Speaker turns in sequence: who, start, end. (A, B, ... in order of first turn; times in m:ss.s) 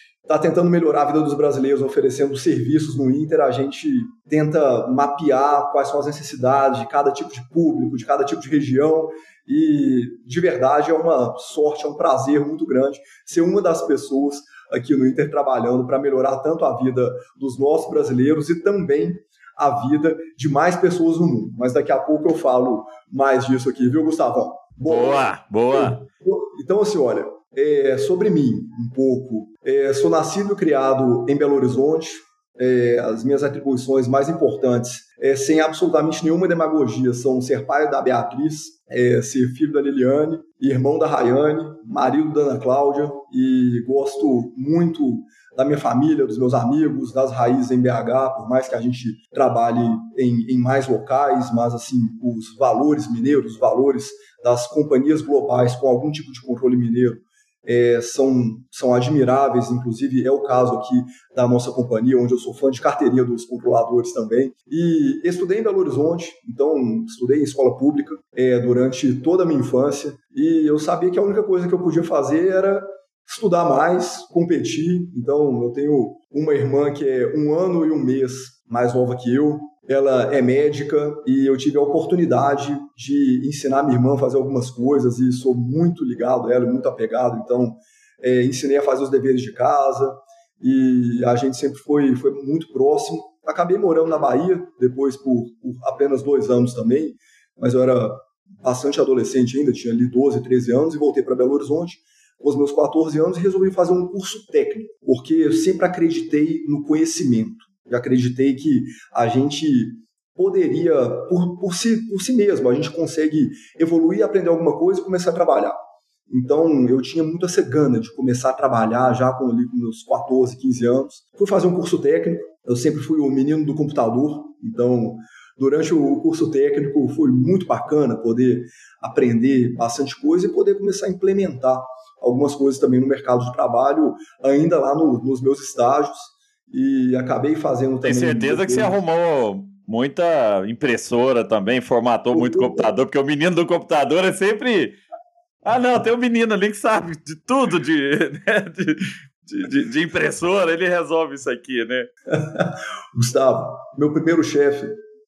0:00.3-1:55.8 A
0:24.9-0:26.0 B
1:56.3-2:19.0 A
2:18.0-2:25.0 B
2:22.3-2:22.9 A
2:25.6-2:32.1 B
2:32.3-2:35.0 A